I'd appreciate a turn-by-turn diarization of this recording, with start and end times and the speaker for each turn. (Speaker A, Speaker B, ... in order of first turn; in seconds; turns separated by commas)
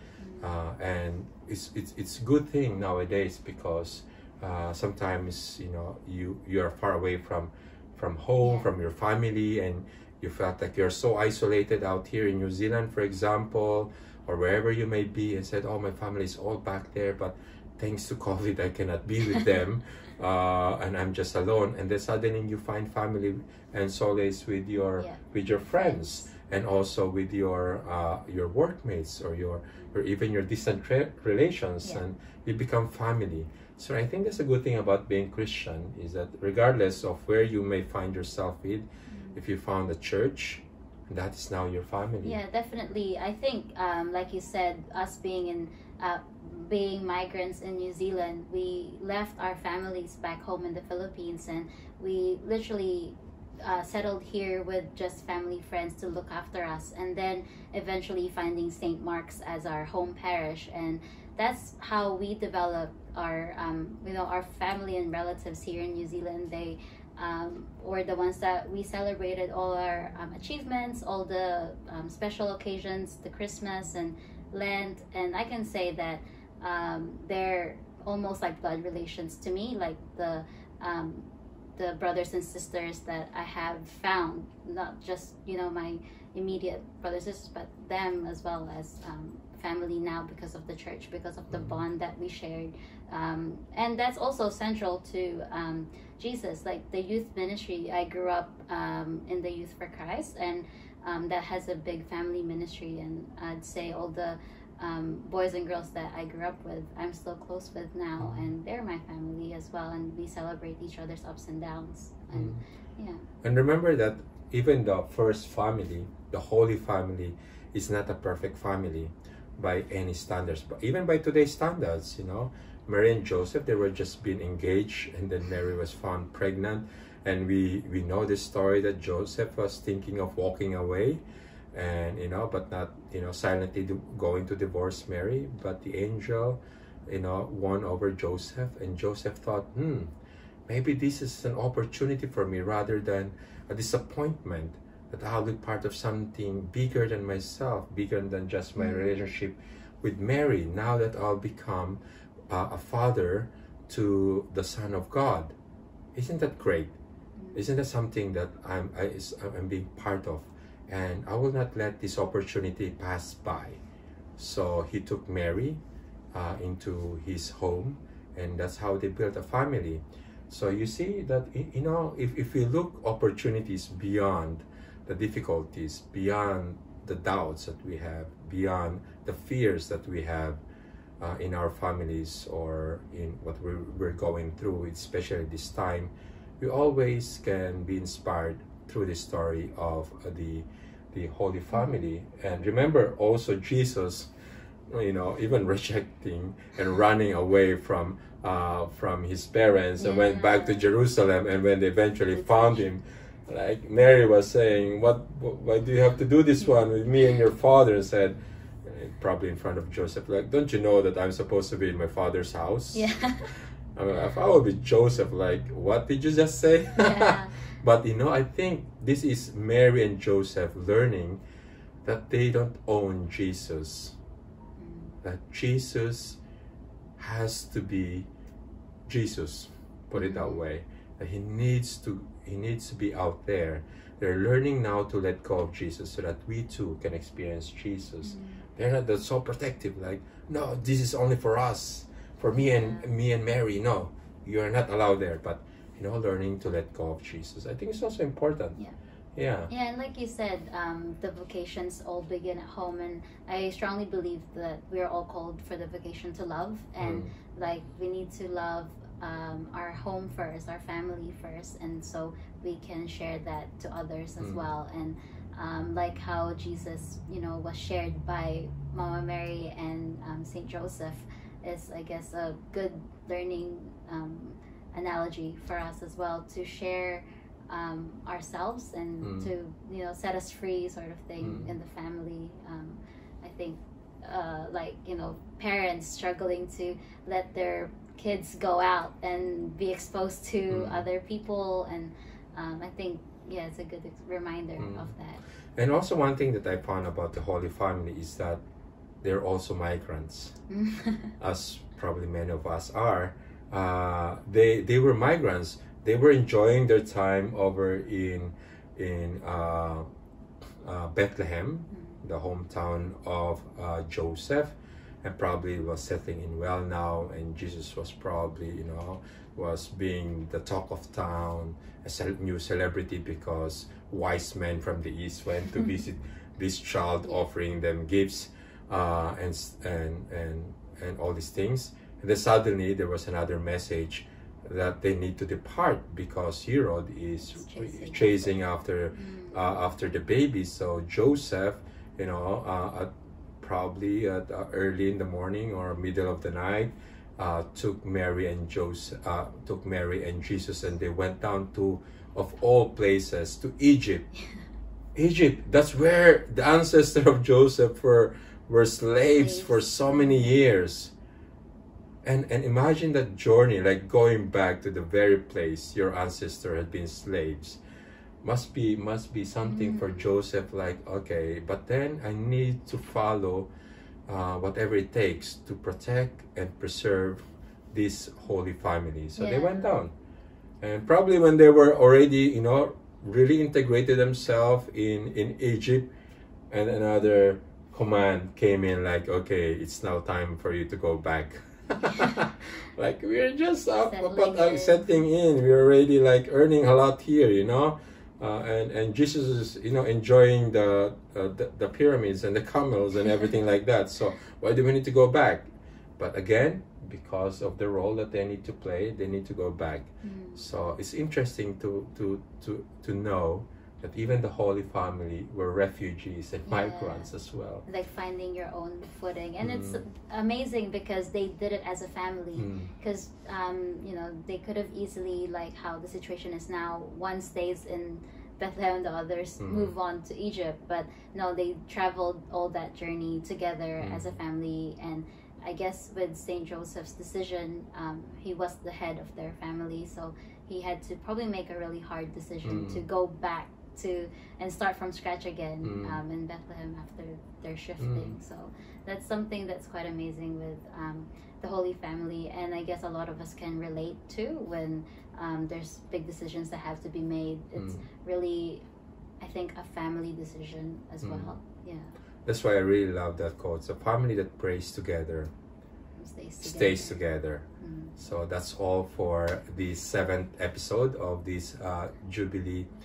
Speaker A: 0.2-0.5, Speaker B: 0.4-42.4, Speaker A: 8.4-8.7, Speaker A: 25.0-26.3, Speaker A: 39.1-39.4, Speaker A: 42.2-113.2, Speaker B: 91.5-91.8, Speaker B: 108.2-108.5, Speaker B: 113.4-131.2, Speaker B: 131.7-140.1, Speaker B: 140.7-155.5, Speaker A: 148.8-149.3, Speaker B: 156.1-156.9, Speaker A: 157.4-157.6, Speaker B: 157.5-163.8, Speaker B: 164.4-165.8, Speaker B: 166.3-180.6, Speaker B: 181.2-194.3, Speaker A: 191.7-192.0, Speaker B: 194.9-213.1, Speaker A: 200.0-200.9, Speaker A: 202.3-202.9, Speaker A: 212.9-213.5, Speaker B: 213.9-221.4, Speaker A: 217.0-217.6, Speaker B: 222.0-224.2, Speaker A: 224.8-225.2, Speaker B: 225.2-226.4, Speaker B: 227.2-228.3, Speaker B: 229.1-248.8, Speaker A: 230.2-230.6, Speaker A: 238.2-238.6, Speaker A: 242.6-243.1, Speaker B: 249.3-249.7, Speaker A: 249.7-295.4, Speaker B: 257.0-257.3, Speaker B: 264.4-264.6, Speaker B: 279.2-279.5, Speaker B: 281.4-281.7, Speaker B: 290.7-291.0, Speaker B: 294.8-295.1, Speaker B: 295.8-298.6, Speaker B: 299.2-300.6, Speaker A: 300.7-301.3, Speaker B: 301.4-310.1, Speaker B: 310.8-343.1, Speaker A: 311.9-312.2, Speaker A: 337.4-338.6, Speaker A: 339.1-339.6, Speaker B: 343.6-354.3, Speaker B: 355.1-361.1, Speaker A: 359.3-360.6, Speaker B: 362.2-367.8, Speaker B: 368.4-373.7, Speaker A: 369.6-370.3, Speaker B: 374.3-380.1, Speaker A: 379.4-380.0, Speaker B: 380.8-386.1, Speaker B: 386.7-417.8, Speaker A: 393.9-395.2, Speaker A: 410.2-410.6, Speaker A: 416.7-417.3, Speaker A: 417.9-458.8, Speaker B: 419.6-420.0, Speaker B: 422.6-422.9, Speaker B: 429.6-429.9, Speaker B: 434.0-434.3, Speaker B: 442.6-443.0, Speaker B: 445.8-446.2, Speaker B: 448.0-448.3, Speaker B: 457.8-458.0, Speaker A: 459.4-462.1, Speaker B: 461.2-461.5, Speaker B: 462.4-465.5, Speaker A: 466.2-467.2, Speaker B: 466.6-467.6, Speaker A: 467.8-468.1, Speaker B: 468.2-472.9